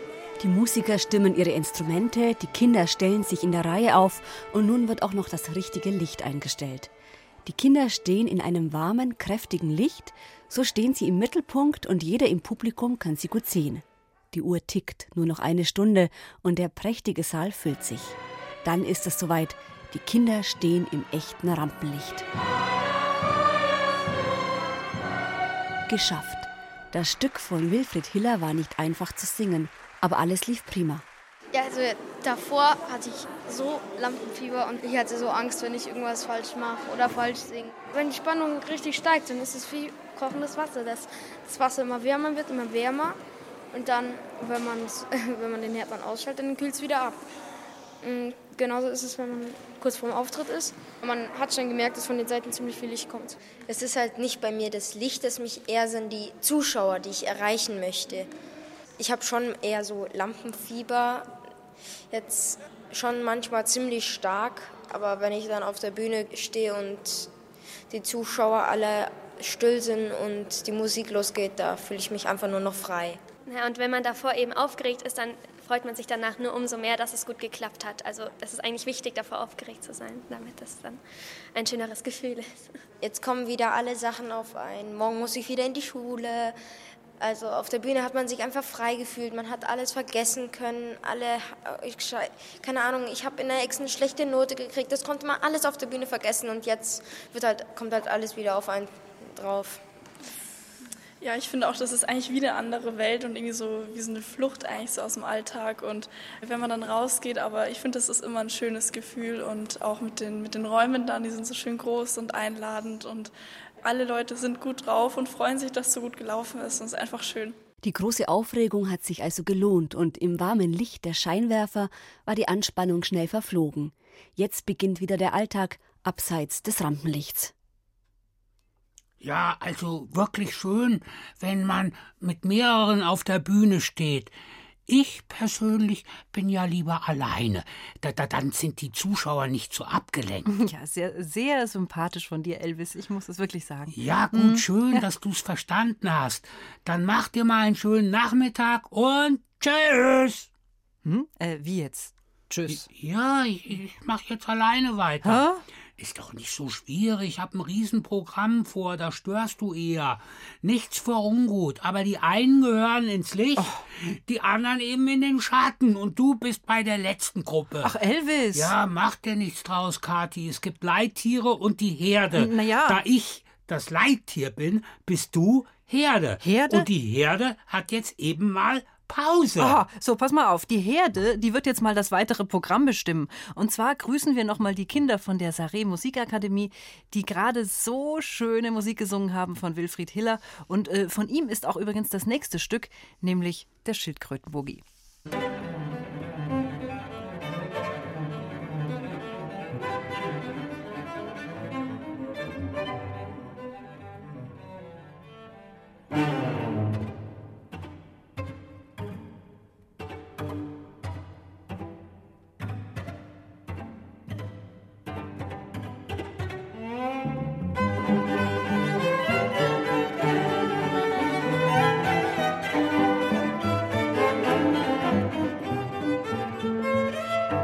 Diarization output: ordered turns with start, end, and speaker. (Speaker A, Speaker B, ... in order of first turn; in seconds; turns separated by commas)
Speaker A: 0.4-6.9, Speaker A: 7.5-22.2, Speaker A: 25.9-31.0, Speaker B: 31.5-43.2, Speaker B: 43.7-47.2, Speaker B: 48.0-53.5, Speaker C: 53.6-58.3, Speaker C: 59.0-61.4, Speaker C: 62.1-67.3, Speaker C: 67.9-73.2, Speaker D: 73.5-81.0, Speaker D: 81.5-82.8, Speaker C: 83.0-86.6, Speaker C: 87.2-99.8, Speaker E: 101.2-117.6, Speaker A: 117.8-127.5, Speaker F: 129.2-134.3, Speaker F: 134.9-140.5, Speaker G: 140.5-145.0, Speaker F: 143.9-150.5, Speaker G: 151.1-152.9, Speaker F: 152.7-167.9, Speaker G: 155.2-155.6, Speaker G: 163.6-163.8, Speaker G: 167.8-168.7, Speaker F: 168.5-179.8, Speaker G: 172.3-173.0, Speaker G: 176.4-176.9, Speaker G: 179.6-194.8